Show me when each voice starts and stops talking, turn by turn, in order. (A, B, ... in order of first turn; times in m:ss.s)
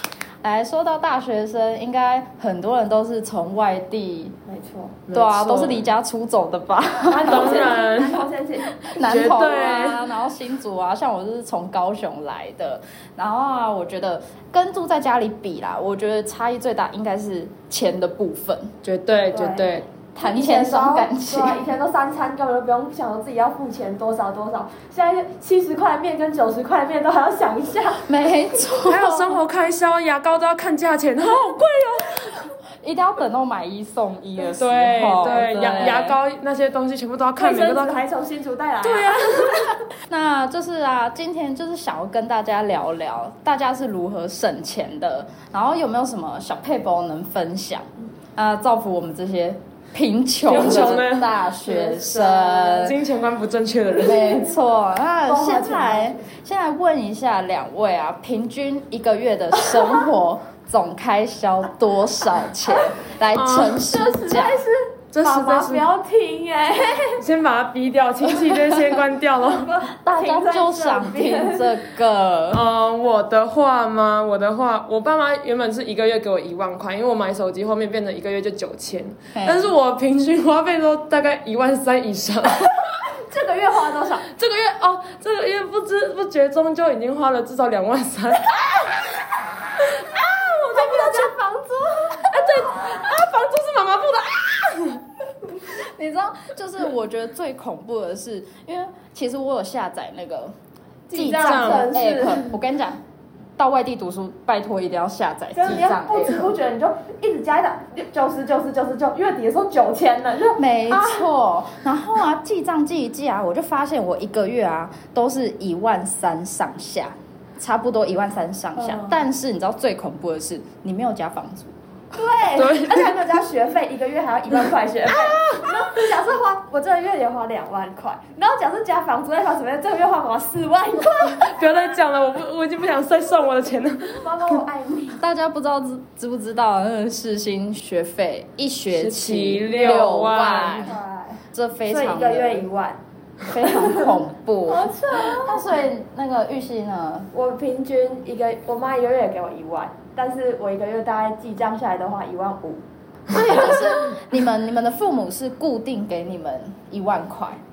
0:00.4-0:04.4 A
0:04.5-0:05.0 B
0:05.1-0:05.9 C
0:05.1-0:07.7 A
0:07.0-0:09.9 B
0:07.2-0:08.2 C
0:08.8-0:18.7 A
0:09.0-0:10.0 C
0:18.8-0:19.9 C
0:19.3-0:28.0 B
0:20.2-0:21.6 A
0:28.0-0:29.4 A
0:28.8-0:32.5 C
0:32.8-0:36.2 A
0:34.5-0:38.0 C
0:37.4-0:39.6 B
0:38.8-0:39.8 C
0:40.1-0:53.0 A
0:50.4-0:51.3 C
0:51.6-0:52.9 B
0:52.8-0:54.3 C
0:54.0-1:04.6 A
0:55.2-0:56.2 B
1:03.3-1:03.8 C
1:03.8-1:07.2 B
1:05.1-1:05.9 C
1:07.2-1:09.7 C
1:08.9-1:11.7 B
1:10.0-1:12.6 A
1:12.5-1:23.0 C
1:19.4-1:19.7 A
1:23.3-1:24.3 B
1:24.3-1:29.0 C
1:29.8-1:31.3 C
1:30.7-1:32.9 B
1:32.2-1:35.0 C
1:35.7-1:40.5 A
1:41.1-1:42.6 B
1:41.1-1:43.0 A
1:41.4-1:41.9 C
1:43.6-1:46.5 A
1:45.5-1:51.3 B
1:50.6-2:01.7 A
1:58.8-1:59.2 B
2:02.1-2:12.0 B
2:02.6-2:03.1 C
2:05.1-2:05.9 C
2:11.3-2:14.6 C
2:14.2-2:15.2 B
2:15.2-2:20.9 A
2:18.9-2:20.9 C
2:20.8-2:23.0 B
2:21.5-2:22.7 A
2:23.5-2:27.3 A
2:23.6-2:24.1 B
2:24.7-2:25.6 B
2:27.3-2:32.8 B
2:33.3-2:37.6 A